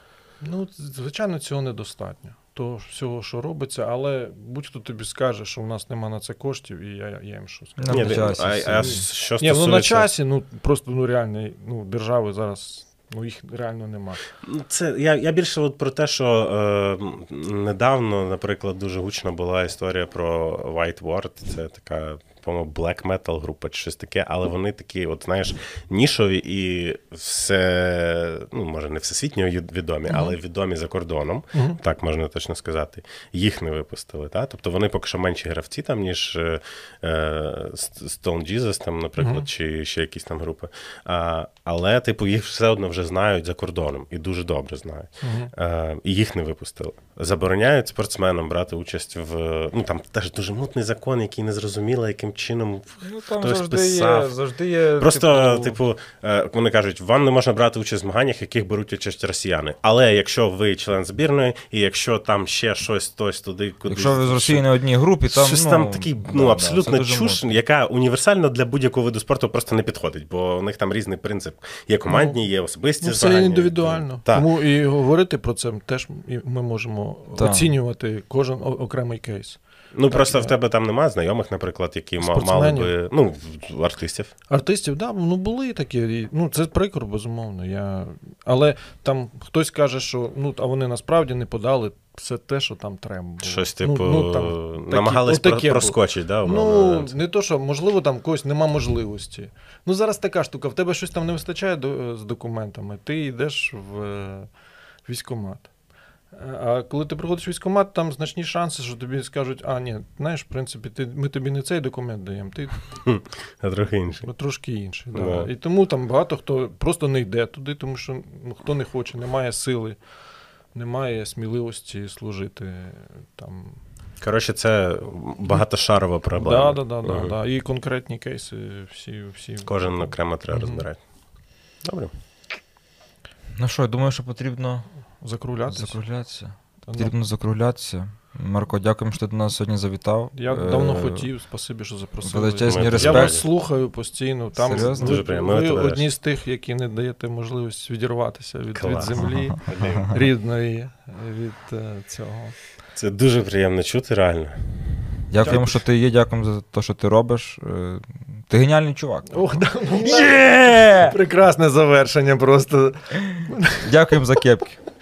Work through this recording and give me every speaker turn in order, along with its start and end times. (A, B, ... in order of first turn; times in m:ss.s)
0:00.4-0:14.2 A
0:07.8-0:09.0 B
0:07.9-0:10.1 C
0:14.4-0:54.3 C
0:31.5-0:31.8 A
0:39.2-0:39.5 A
0:45.2-0:45.5 A
0:53.0-0:55.8 B
0:55.0-1:04.6 C
1:03.9-1:07.4 B
1:05.3-1:14.5 C
1:12.1-1:12.4 A
1:13.0-1:20.5 A
1:17.4-1:17.7 B
1:19.9-1:24.3 C
1:22.2-1:22.9 A
1:24.5-1:44.5 A
1:33.4-1:37.1 C
1:45.0-1:45.7 A
1:46.3-1:52.8 A
1:53.0-1:54.3 C
1:54.2-2:00.0 A
1:55.1-1:55.5 C
2:00.7-2:03.8 A
2:04.2-2:07.3 C
2:06.4-2:10.8 A
2:09.6-2:11.0 C
2:11.8-2:12.1 C
2:13.6-2:14.9 B
2:15.2-2:16.0 A
2:15.7-2:21.3 B
2:16.8-2:17.1 A
2:20.3-2:32.6 A
2:22.2-2:23.4 B
2:22.6-2:23.4 C
2:24.6-2:25.2 B
2:24.7-2:26.1 C
2:28.7-2:30.2 C
2:29.2-2:29.5 B
2:32.9-2:34.7 C
2:35.3-2:39.5 B
2:35.4-2:35.8 A
2:39.3-2:43.9 A
2:40.0-2:41.2 B
2:43.3-2:44.8 B